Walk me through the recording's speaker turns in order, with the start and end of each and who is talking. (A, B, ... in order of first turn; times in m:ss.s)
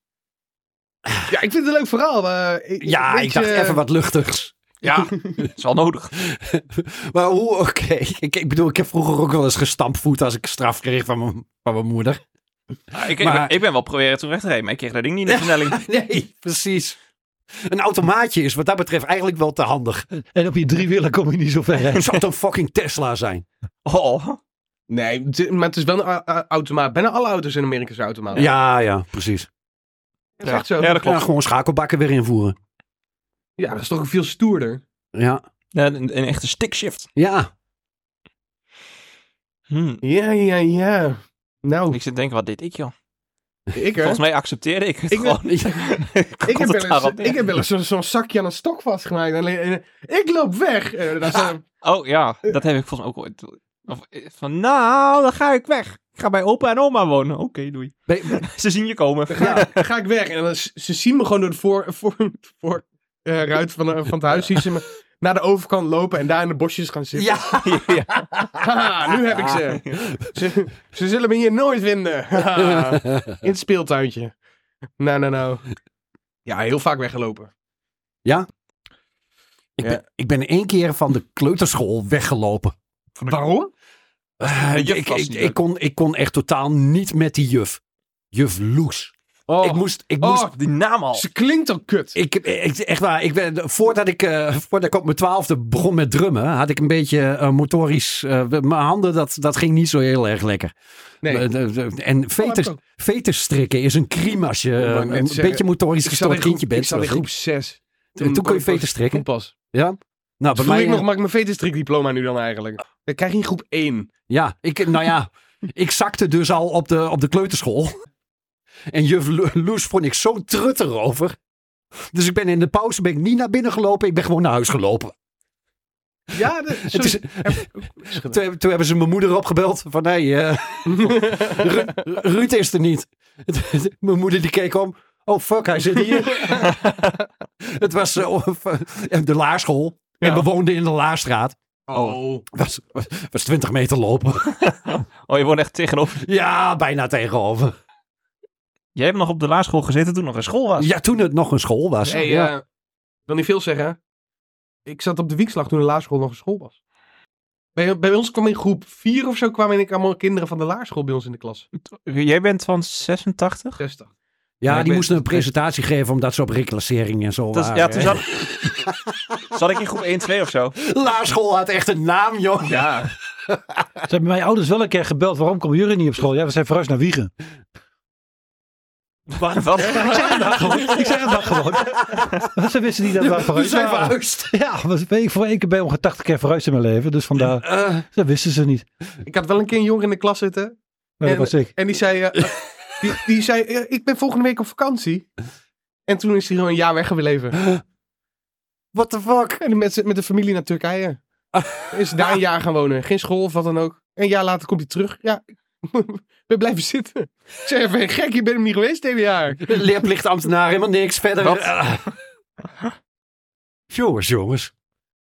0:01.3-0:03.8 A
0:02.8-0:04.5 B
0:04.8-0:06.1 C
0:06.2-0:12.2 B
0:12.9-0:15.8 C
0:13.1-0:13.6 B
0:15.3-0:17.0 B
0:17.6-0:20.0 B
0:20.4-0:22.1 D
0:21.9-0:23.4 B
0:23.8-0:24.4 C
0:24.9-0:28.5 A
0:28.3-0:29.5 B
0:30.4-0:31.0 A
0:30.4-0:31.2 C
0:30.8-0:32.6 B
0:33.6-0:34.8 A
0:35.1-0:35.4 B
0:35.7-0:37.1 C
0:37.2-0:37.5 B
0:39.7-0:40.0 C
0:40.0-0:42.0 A
0:41.9-0:42.9 C
0:43.7-0:44.2 A
0:44.0-0:47.5 C
0:45.1-0:45.4 A
0:45.4-0:45.8 B
0:46.4-0:51.6 A
0:51.3-0:59.8 C
0:58.1-0:58.4 B
0:59.3-1:07.6 A
1:07.1-1:08.7 B
1:07.6-1:08.2 C
1:08.6-1:14.3 A
1:12.5-1:13.4 B
1:15.0-1:15.6 A
1:16.5-1:17.5 A
1:19.8-1:22.8 B
1:23.3-1:23.7 A
1:24.4-1:27.8 B
1:24.4-1:25.6 C
1:28.3-1:30.5 B
1:29.5-1:30.6 A
1:30.6-1:31.3 C
1:31.1-1:32.2 A
1:32.2-1:47.3 B
1:42.4-1:42.8 A
1:44.8-1:49.5 A
1:48.2-1:51.1 B
1:50.5-1:54.1 A
1:54.3-1:58.0 B
1:58.9-2:01.4 B
2:02.1-2:05.1 B
2:06.3-2:08.4 A
2:06.8-2:07.6 B
2:08.2-2:16.8 B
2:10.9-2:12.0 A
2:16.3-2:16.7 A
2:17.6-2:24.7 B
2:21.9-2:22.4 A
2:24.6-2:26.2 C
2:26.2-2:27.7 B
2:29.0-2:30.9 C
2:30.8-2:32.5 B
2:32.1-2:32.6 A
2:33.3-2:34.0 A
2:34.9-2:36.8 A
2:37.8-2:41.7 A
2:42.0-2:43.8 C
2:43.8-2:44.1 A
2:44.6-2:49.4 B
2:44.7-2:45.4 C
2:47.5-2:48.3 C
2:49.5-2:50.8 C
2:50.8-2:53.8 B
2:52.6-2:53.1 A
2:54.1-2:57.3 D
2:59.3-3:00.6 C
2:59.9-3:08.8 D
3:01.8-3:02.3 B
3:03.1-3:04.5 B
3:07.5-3:08.1 B
3:09.2-3:15.3 A
3:11.2-3:11.7 D
3:16.1-3:17.6 A
3:18.9-3:19.6 B
3:19.5-3:21.2 A
3:21.6-3:22.4 B
3:21.9-3:29.8 A
3:29.6-3:32.1 B
3:33.9-3:34.7 B